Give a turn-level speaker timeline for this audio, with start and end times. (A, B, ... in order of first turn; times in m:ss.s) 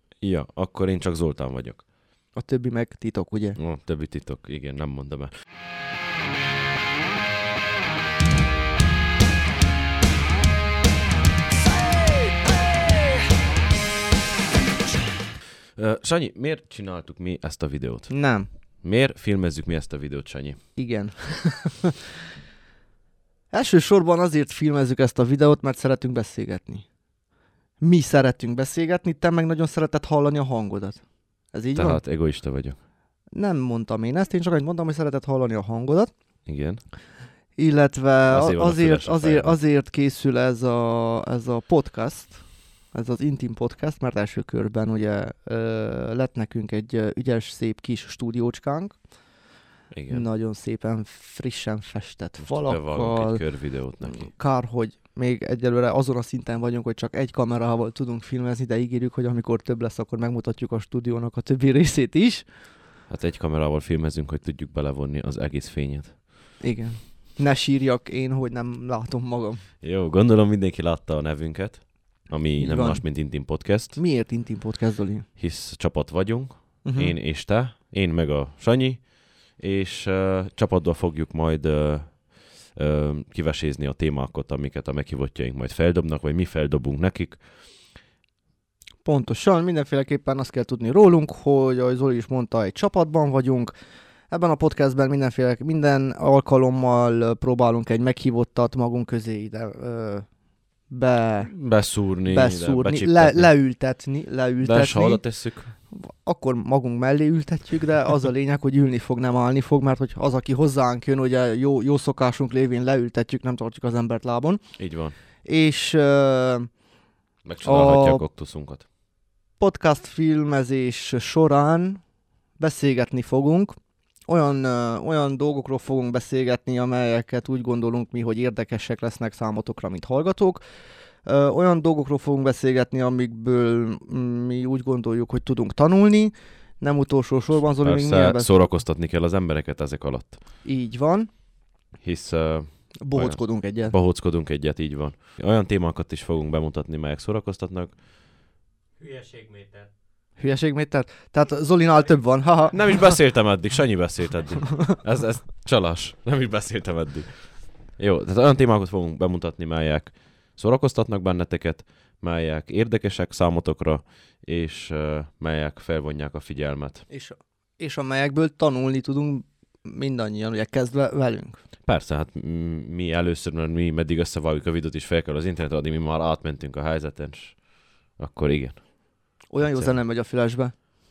0:00.2-0:01.8 A
0:02.3-0:03.6 B
0:03.6-0:05.3 A
0:15.8-0:20.6 A
0:18.1-0:18.5 B
0:20.7-0:21.9 B
0:23.5-0:26.9 B
0:27.8-0:32.0 B
0:31.7-0:32.8 A
0:33.3-0:36.1 B
0:36.4-0:36.8 A
0:37.6-0:49.1 B
0:38.3-0:39.6 A
0:49.9-0:50.3 A
0:50.1-1:02.5 B
0:52.4-0:54.3 A
1:03.1-1:06.2 A
1:06.6-1:09.7 B
1:09.8-1:14.0 A
1:12.6-1:15.3 B
1:15.4-1:27.4 A
1:16.8-1:17.1 B
1:29.0-1:33.7 B
1:34.3-1:41.6 B
1:41.4-1:43.6 A
1:42.2-1:54.6 B
1:44.6-1:45.7 A
1:54.8-1:55.1 A
1:55.4-1:56.7 B
1:57.4-1:58.8 A
1:57.6-1:58.2 B
1:59.6-2:02.0 B
2:02.6-2:03.7 B
2:04.3-2:10.6 B
2:11.2-2:18.5 B
2:17.8-2:20.4 A
2:20.6-2:21.3 B
2:22.0-2:28.0 A
2:23.0-2:24.0 B
2:29.0-2:29.9 C
2:30.4-2:33.1 B
2:31.8-2:32.9 C
2:32.7-2:47.0 A
2:47.1-2:51.6 B
2:51.8-2:59.9 A
2:59.5-3:00.7 B